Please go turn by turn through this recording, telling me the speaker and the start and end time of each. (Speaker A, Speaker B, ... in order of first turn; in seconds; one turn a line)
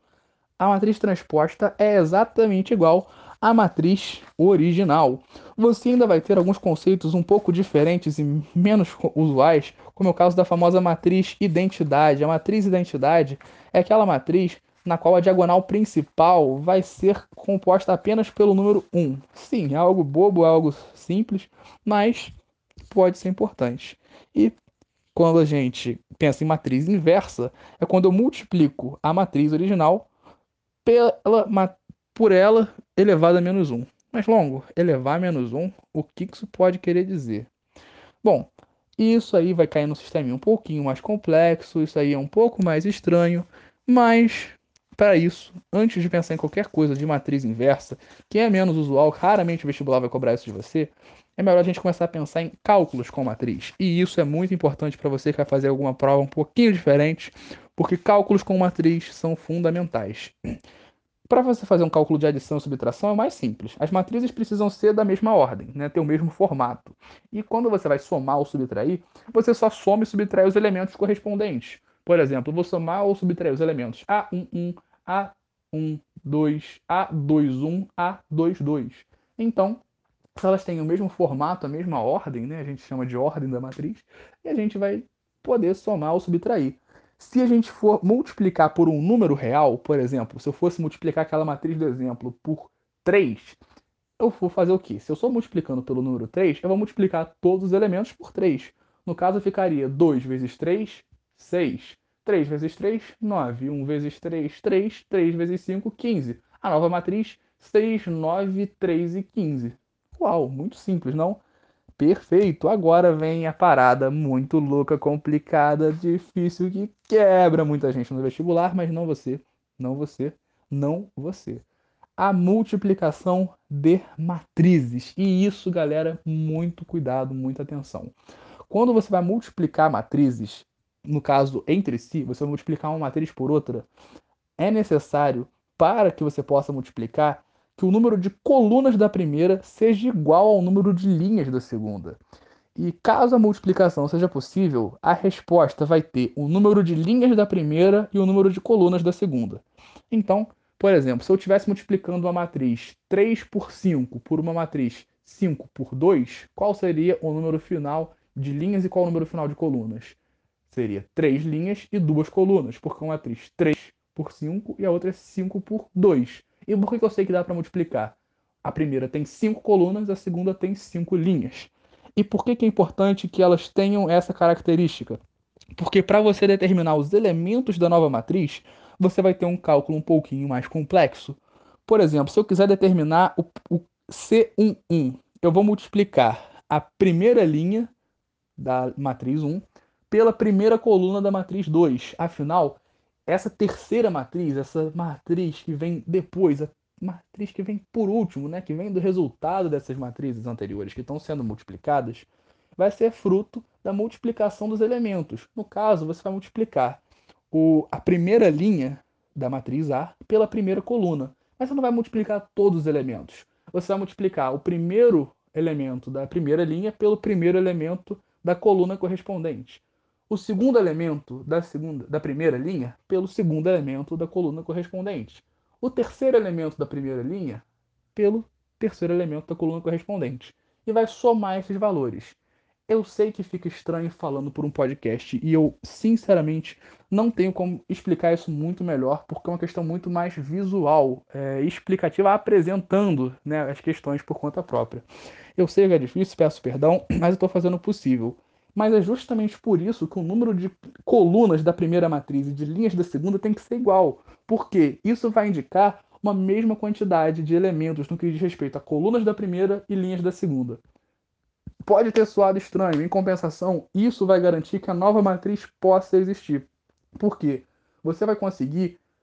Speaker A: 0.6-22.3
Speaker A: 22.9-24.6
Speaker A: 25.1-30.1
Speaker A: 30.8-37.5
Speaker A: 38.2-60.3
Speaker A: 61.3-79.8
Speaker A: 80.3-93.6
Speaker A: 94.2-111.4
Speaker A: 112.0-121.6
Speaker A: 122.2-128.1
Speaker A: 128.7-133.9
Speaker A: 134.6-142.2
Speaker A: 142.8-160.2
Speaker A: 160.7-175.2
Speaker A: 175.8-187.9
Speaker A: 188.6-245.0
Speaker A: 245.6-260.8
Speaker A: 261.8-269.0